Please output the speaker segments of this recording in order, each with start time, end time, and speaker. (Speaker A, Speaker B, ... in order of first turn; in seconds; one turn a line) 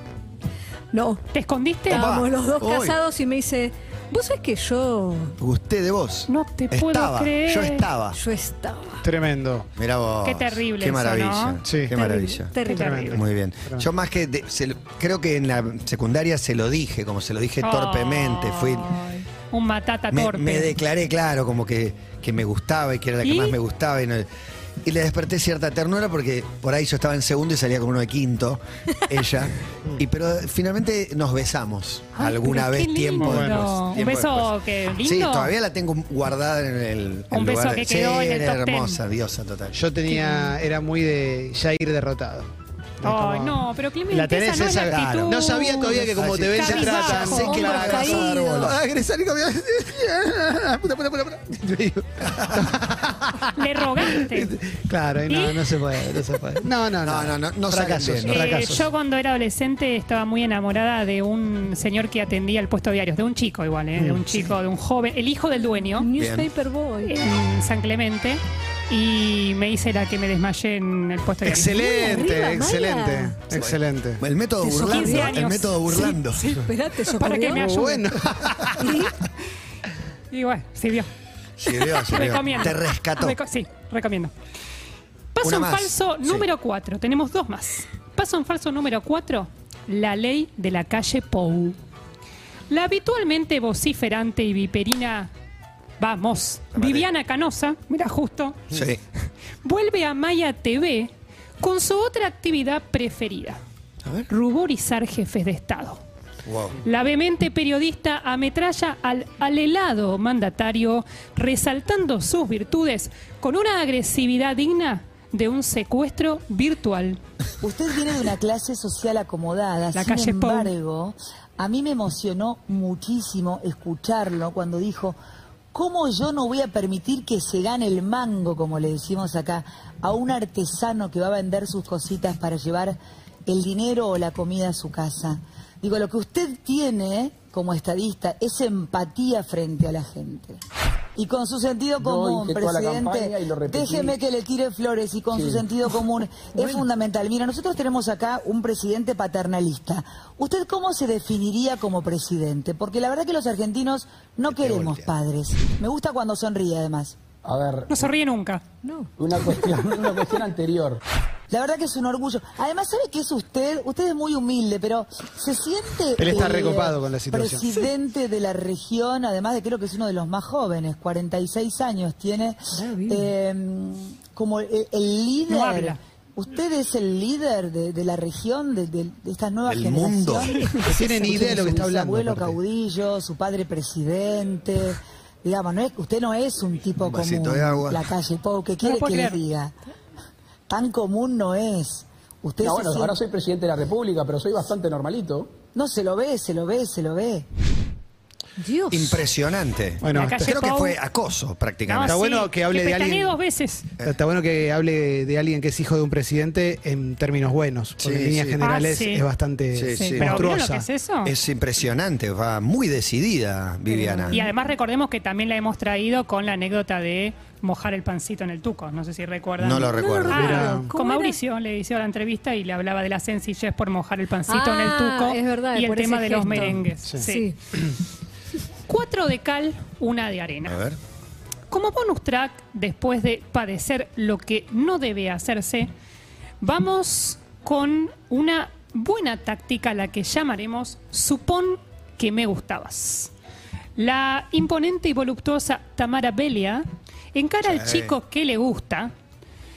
Speaker A: 0.9-1.2
Speaker B: 1.3-2.1
Speaker A: 1.9-5.3
Speaker C: 1.9-3.0
Speaker C: 5.4-8.2
Speaker B: 6.3-7.9
Speaker A: 8.1-9.1
Speaker D: 9.0-9.7
Speaker C: 9.8-12.5
Speaker B: 10.2-11.6
Speaker D: 11.7-12.0
Speaker A: 12.0-13.1
Speaker B: 12.6-13.1
Speaker D: 12.8-13.9
Speaker C: 13.1-18.9
Speaker B: 17.6-20.7
Speaker C: 20.1-24.3
Speaker B: 23.2-23.6
Speaker C: 24.8-34.5
Speaker B: 32.1-35.5
Speaker D: 33.2-33.6
Speaker C: 35.0-39.8
Speaker B: 37.3-39.0
Speaker D: 39.7-42.5
Speaker B: 40.1-40.5
Speaker D: 43.0-53.5
Speaker B: 43.0-48.3
Speaker C: 46.1-48.8
Speaker C: 52.3-52.6
Speaker B: 53.5-54.5
Speaker D: 54.0-58.9
Speaker B: 55.3-55.6
Speaker C: 57.0-58.5
Speaker B: 58.3-66.1
Speaker D: 64.0-64.5
Speaker A: 65.8-67.2
Speaker C: 66.2-66.5
Speaker B: 67.0-71.8
Speaker D: 71.4-74.2
Speaker A: 71.8-73.4
Speaker C: 73.5-76.6
Speaker A: 74.6-77.7
Speaker B: 74.8-75.8
Speaker B: 77.2-78.0
Speaker D: 77.5-78.4
Speaker A: 78.8-79.1
Speaker B: 80.3-81.1
Speaker C: 81.6-83.4
Speaker B: 81.8-84.3
Speaker B: 85.3-91.8
Speaker C: 85.4-86.5
Speaker B: 92.7-95.3
Speaker B: 96.0-98.8
Speaker C: 96.7-97.1
Speaker C: 98.7-99.0
Speaker B: 99.6-103.6
Speaker C: 104.0-104.3
Speaker B: 104.3-106.0
Speaker C: 106.4-106.8
Speaker B: 106.8-117.2
Speaker E: 117.6-125.2
Speaker B: 119.9-120.7
Speaker E: 125.7-140.6
Speaker E: 141.2-157.2
Speaker F: 142.0-144.2
Speaker F: 145.3-145.7
Speaker C: 154.5-155.1
Speaker F: 157.4-158.0
Speaker B: 157.9-158.6
Speaker A: 158.8-159.1
Speaker F: 159.2-161.0
Speaker E: 161.5-189.7
Speaker D: 166.2-167.8
Speaker A: 172.8-173.3
Speaker B: 175.5-176.0
Speaker C: 179.6-180.5
Speaker D: 180.9-182.6
Speaker C: 187.0-188.0
Speaker B: 188.8-189.4
Speaker E: 190.7-193.2
Speaker F: 192.6-195.5
Speaker E: 195.7-197.4
Speaker A: 198.6-199.2
Speaker C: 198.9-202.2
Speaker D: 200.0-200.5
Speaker B: 200.1-201.0
Speaker B: 201.9-203.9
Speaker D: 202.1-203.4
Speaker D: 204.0-210.9
Speaker C: 208.0-208.6
Speaker B: 208.6-209.2
Speaker C: 209.8-210.5
Speaker B: 209.9-211.3
Speaker C: 211.2-214.4
Speaker A: 213.9-214.5
Speaker B: 214.3-227.5
Speaker C: 219.6-220.6
Speaker A: 219.9-221.4
Speaker D: 220.3-220.9
Speaker A: 224.5-227.6
Speaker B: 228.9-230.8
Speaker C: 230.6-231.0
Speaker B: 231.7-235.9
Speaker B: 236.6-243.3
Speaker B: 244.0-249.1
Speaker C: 247.6-248.2